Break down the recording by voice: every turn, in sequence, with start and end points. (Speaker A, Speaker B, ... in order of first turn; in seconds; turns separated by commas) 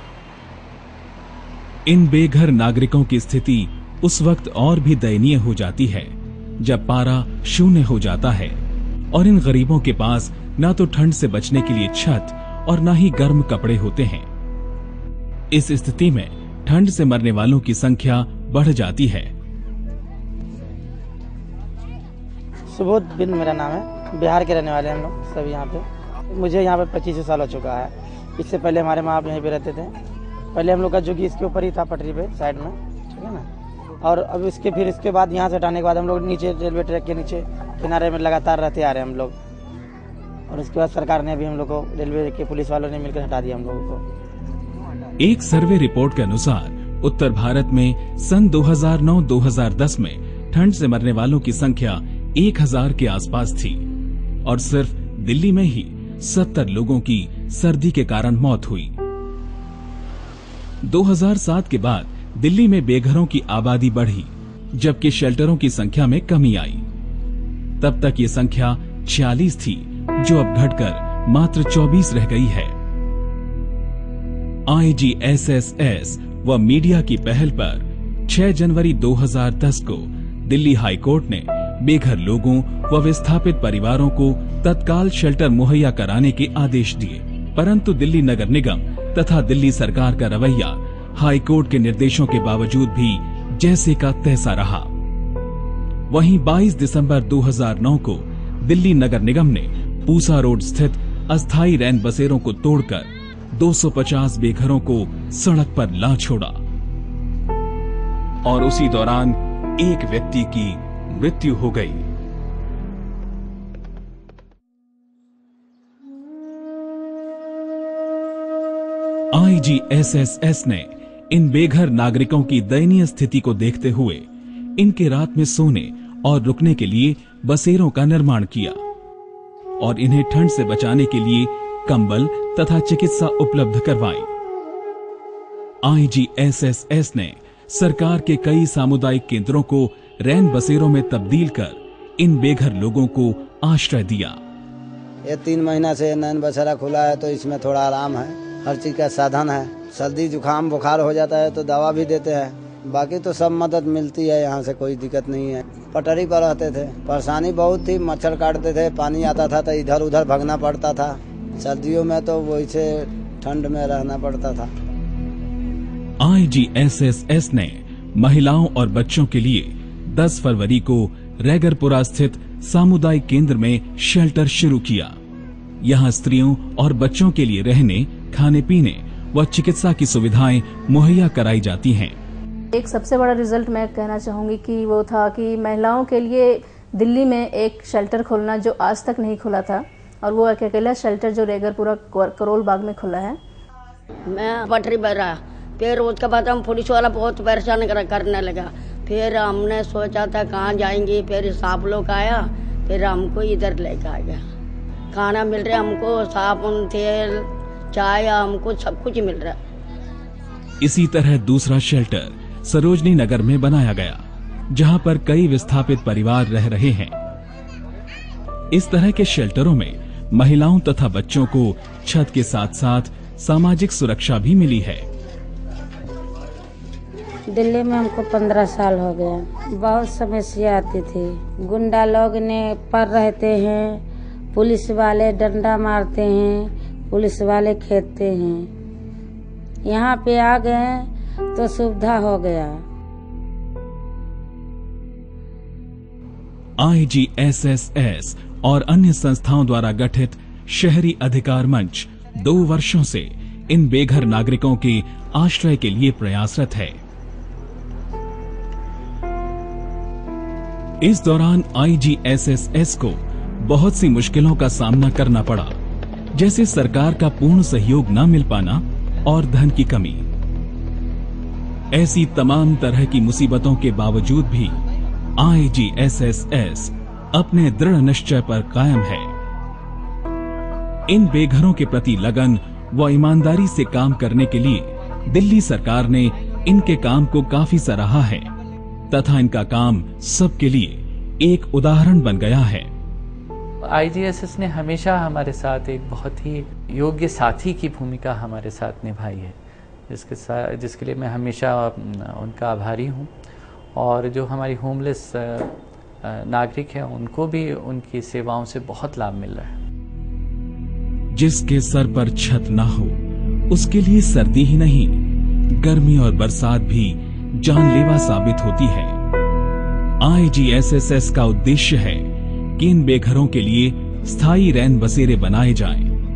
Speaker A: 1.9-8.6, Speaker A: 9.1-14.3, Speaker A: 15.5-19.3, Speaker B: 22.7-29.9, Speaker B: 30.5-33.5, Speaker B: 34.0-39.3, Speaker B: 40.5-44.0, Speaker A: 45.2-53.8, Speaker A: 54.4-59.0, Speaker A: 60.8-66.8, Speaker A: 67.8-72.7, Speaker A: 74.7-94.9, Speaker A: 96.1-106.6, Speaker A: 108.4-112.1, Speaker A: 119.3-124.3, Speaker A: 124.8-128.8, Speaker A: 129.8-134.3, Speaker A: 135.8-144.4, Speaker C: 145.3-164.7, Speaker A: 166.2-175.2, Speaker A: 175.8-182.2, Speaker D: 182.7-193.4, Speaker E: 194.3-204.4, Speaker E: 205.1-209.6, Speaker A: 210.8-217.1, Speaker A: 218.7-225.1, Speaker F: 227.5-234.0, Speaker F: 234.5-238.7, Speaker F: 239.9-242.7, Speaker A: 246.8-257.0, Speaker A: 261.0-265.8, Speaker A: 266.3-270.2, Speaker A: 271.9-274.8, Speaker A: 275.4-279.3, Speaker A: 281.1-288.5, Speaker A: 289.1-292.9, Speaker G: 293.8-299.6, Speaker G: 300.1-303.3, Speaker G: 303.9-309.7, Speaker A: 311.3-315.2, Speaker A: 315.7-319.1, Speaker A: 320.2-326.1